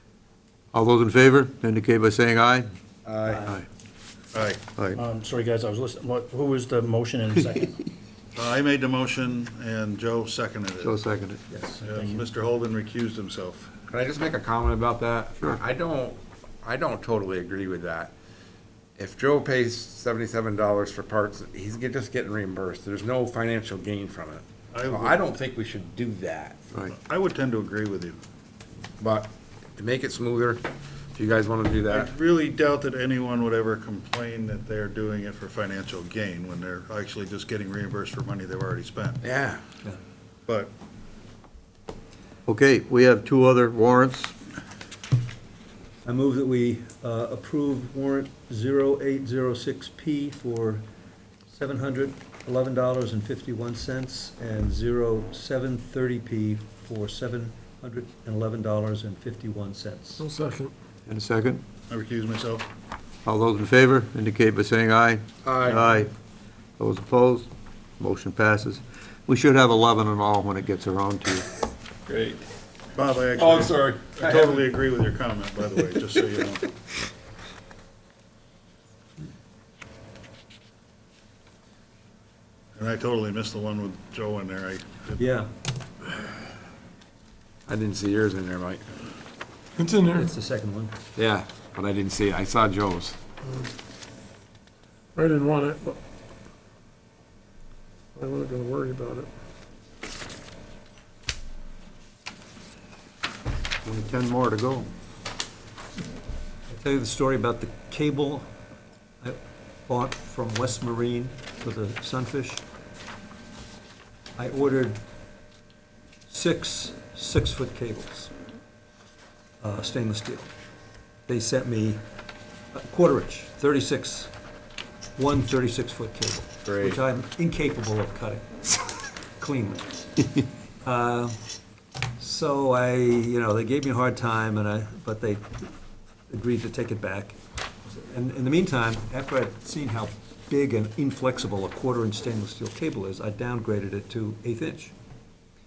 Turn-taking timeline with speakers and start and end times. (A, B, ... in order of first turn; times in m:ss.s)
0:00.7-0:02.7 A
0:03.0-0:03.5 B
0:03.2-0:03.6 C
0:04.3-0:04.6 D
0:05.0-0:07.6 E
0:08.4-0:10.9 D
0:10.8-0:11.4 A
0:11.5-0:11.8 C
0:11.8-0:13.7 D
0:13.9-0:18.1 B
0:19.0-0:26.6 B
0:24.7-0:25.2 D
0:26.9-0:28.2 D
0:29.0-0:30.6 B
0:31.1-0:32.1 B
0:31.9-0:39.2 D
0:39.2-0:39.6 B
0:40.5-0:40.7 D
0:42.5-0:44.3 A
0:46.0-0:50.8 C
0:51.5-1:00.2 C
1:00.2-1:00.7 F
1:01.0-1:01.6 A
1:01.9-1:02.7 D
1:03.2-1:06.1 A
1:05.4-1:05.9 B
1:06.8-1:11.4 A
1:12.1-1:12.4 B
1:12.9-1:16.6 D
1:13.4-1:14.7 B
1:22.8-1:25.2 D
1:25.2-1:25.5 C
1:27.7-1:28.8 B
1:29.8-1:30.3 F
1:30.1-1:30.9 C
1:31.2-1:33.2 B
1:35.1-1:36.0 F
1:38.1-1:39.3 F
1:43.8-1:44.9 A
1:46.7-1:48.5 C
1:49.2-1:52.6 C
1:54.4-1:55.0 C
1:56.3-1:58.3 C
1:59.6-2:00.5 C
2:01.3-2:02.0 C
2:02.7-2:04.3 C
2:05.2-2:09.9 C
2:06.6-2:07.0 B
2:10.8-2:11.4 C
2:12.2-2:15.7 C
2:16.3-2:24.9 C